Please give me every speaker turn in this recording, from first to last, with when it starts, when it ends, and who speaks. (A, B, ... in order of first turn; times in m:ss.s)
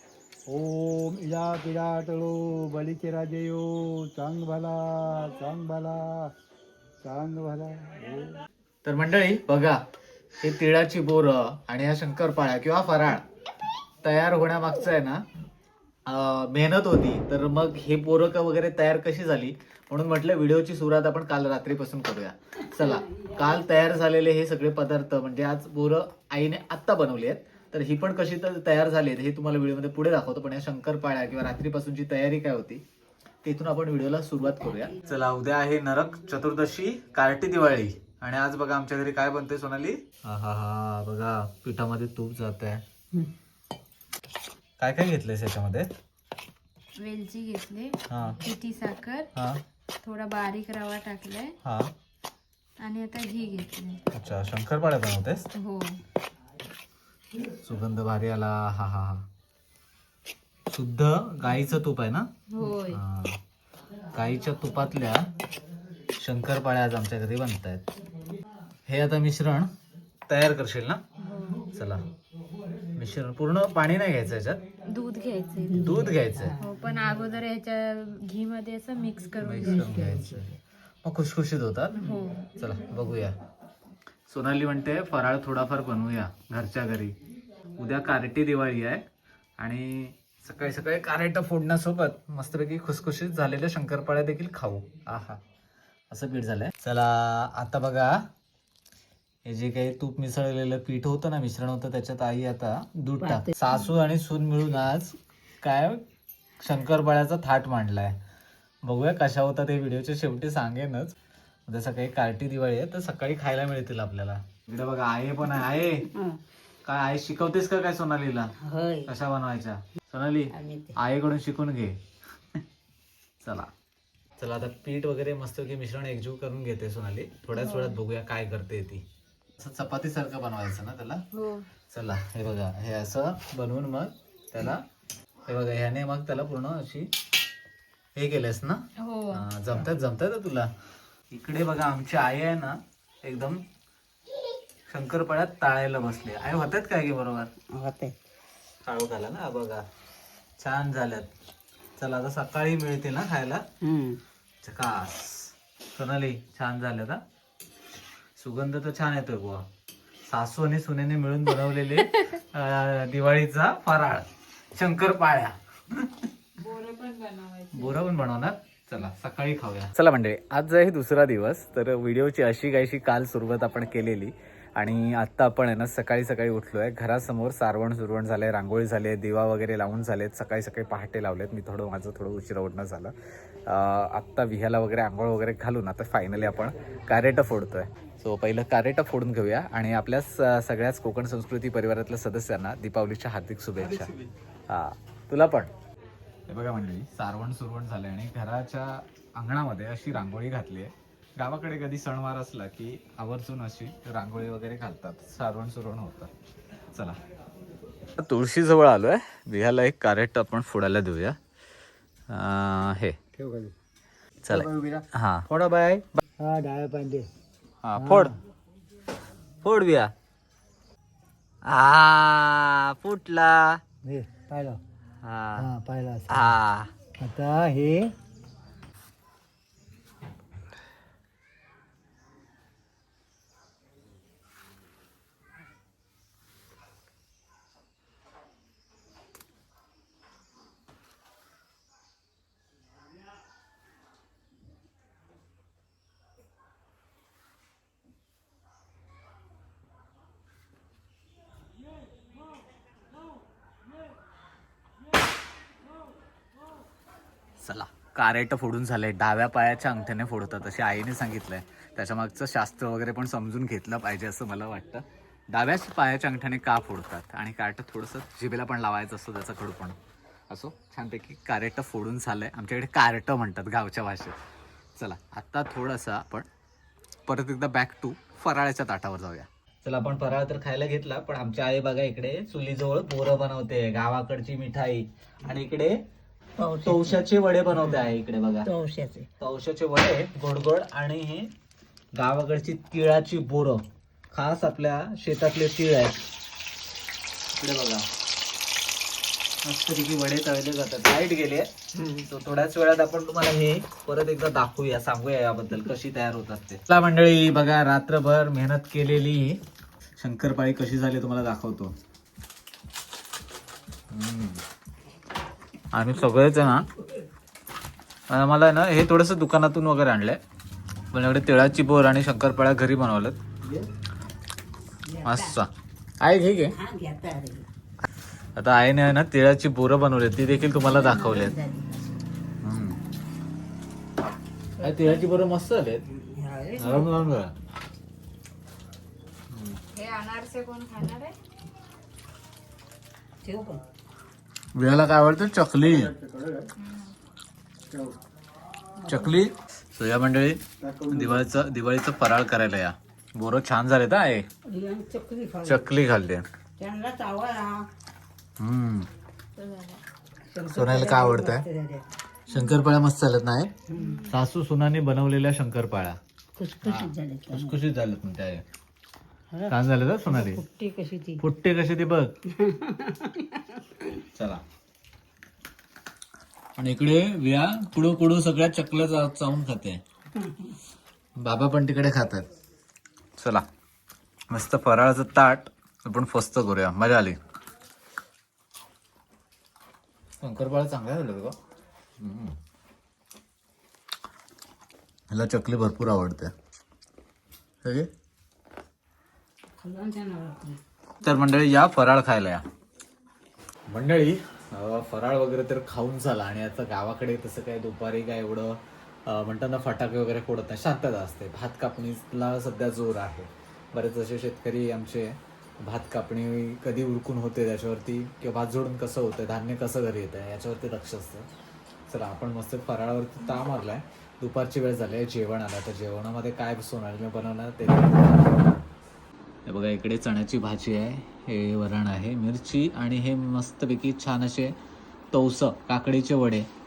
0:00.5-0:06.3 A
0:07.0-0:08.4 A
0:08.8-0:09.8 B
0:10.4-0:13.2 B
0:14.0-0:15.2 B
0:16.1-0:32.8 B
0:33.4-0:42.8 B
0:44.8-0:45.9 B
0:47.0-0:49.3 C
0:48.1-0:48.4 B
0:49.4-0:49.6 B
0:50.0-0:51.5 C
0:51.6-0:51.9 B
0:52.8-0:54.0 C
0:54.1-0:55.5 B
0:55.6-0:56.0 C
0:57.6-0:59.2 B
1:00.7-1:02.3 B
1:02.5-1:03.0 C
1:02.9-1:03.4 B
1:04.1-1:05.3 B
1:06.2-1:07.9 B
1:08.9-1:09.7 B
1:10.3-1:11.0 B
1:11.2-1:11.7 C
1:11.7-1:12.0 B
1:13.0-1:14.6 B
1:14.8-1:16.0 C
1:15.7-1:16.6 B
1:16.6-1:19.9 C
1:19.4-1:23.4 B
1:19.8-1:20.3 A
1:22.0-1:22.5 C
1:24.3-1:27.2 B
1:27.8-1:29.0 B
1:29.6-1:35.4 B
1:36.1-1:38.3 B
1:39.5-1:46.0 B
1:43.2-1:43.5 D
1:46.6-1:48.2 B
1:48.8-1:51.2 B
1:51.7-1:56.1 B
1:56.8-1:58.5 B
1:58.6-1:59.1 D
1:59.1-2:02.0 B
2:00.6-2:00.9 D
2:03.4-2:03.7 B
2:04.4-2:09.0 B
2:07.6-2:07.9 C
2:09.6-2:11.2 B
2:11.3-2:11.7 C
2:11.9-2:14.8 B
2:15.5-2:17.1 B
2:18.2-2:20.7 B
2:19.0-2:19.4 C
2:21.3-2:23.6 B
2:24.9-2:27.5 B
2:27.7-2:28.1 D
2:28.8-2:29.8 B
2:30.6-2:31.3 B
2:32.0-2:33.6 B
2:33.8-2:34.2 D
2:34.6-2:37.2 B
2:38.4-2:39.7 B
2:40.3-2:46.3 B
2:46.6-2:48.0 C
2:47.7-3:03.1 B
3:03.7-3:14.1 B
3:14.7-3:15.7 B
3:16.5-3:26.3 B
3:26.9-3:27.2 B
3:28.2-3:31.4 B
3:32.3-3:33.2 B
3:33.4-3:33.7 A
3:34.4-3:36.2 B
3:34.5-3:35.0 A
3:36.4-3:37.3 A
3:37.8-3:38.4 B
3:38.0-3:38.3 A
3:39.6-3:40.1 B
3:41.7-3:43.8 B
3:44.0-3:44.8 A
3:45.2-3:45.7 B
3:45.6-3:46.5 A
3:46.3-3:46.9 B
3:47.2-3:48.1 A
4:17.6-4:30.0 B
4:30.5-4:34.4 B
4:35.0-4:36.5 B
4:37.3-4:46.0 B
4:46.6-4:47.2 D
4:46.8-4:48.7 B
4:48.6-4:49.3 D
4:49.4-4:51.5 B
4:52.2-4:56.2 B
4:57.6-4:58.1 B
4:59.6-5:09.6 B
5:10.2-5:11.9 B
5:14.1-5:14.6 B
5:15.9-5:16.9 B
5:18.3-5:20.4 B
5:21.1-5:23.4 B
5:25.1-5:25.5 D
5:25.2-5:25.7 B
5:26.2-5:26.8 B
5:26.8-5:27.7 D
5:28.6-5:31.5 B
5:30.8-5:32.2 D
5:32.6-5:33.0 B
5:34.8-5:36.0 B
5:36.2-5:37.1 D
5:36.8-5:37.5 B
5:39.5-5:39.8 B
5:39.9-5:41.4 C
5:43.5-5:43.8 A
5:44.7-5:46.1 B
5:45.9-5:46.7 A
5:46.8-5:47.1 C
5:49.1-5:54.5 B
5:50.8-5:51.4 A
5:54.7-5:55.8 D
5:55.6-5:56.5 B
5:56.8-5:57.7 D
5:58.6-5:59.1 B
5:59.6-6:00.0 C
6:00.5-6:02.0 D
6:00.7-6:01.6 B
6:02.5-6:03.7 B
6:04.0-6:04.3 C
6:04.3-6:06.2 B
6:06.6-6:07.8 D
6:06.8-6:08.6 B
6:09.7-6:10.6 B
6:10.4-6:11.2 A
6:11.4-6:12.3 B
6:12.7-6:13.0 D
6:14.3-6:14.6 B
6:16.8-6:20.0 B
6:21.4-6:22.5 B
6:23.4-6:23.6 B
6:24.5-6:27.4 B
6:30.4-6:31.6 B
6:32.2-6:32.6 B
6:35.3-6:36.5 B
6:37.8-6:38.1 B
6:39.8-6:40.7 A
6:41.2-6:42.6 B
6:43.9-7:01.5 B
7:02.1-7:08.8 B
7:09.7-7:14.8 B
7:15.3-7:16.7 B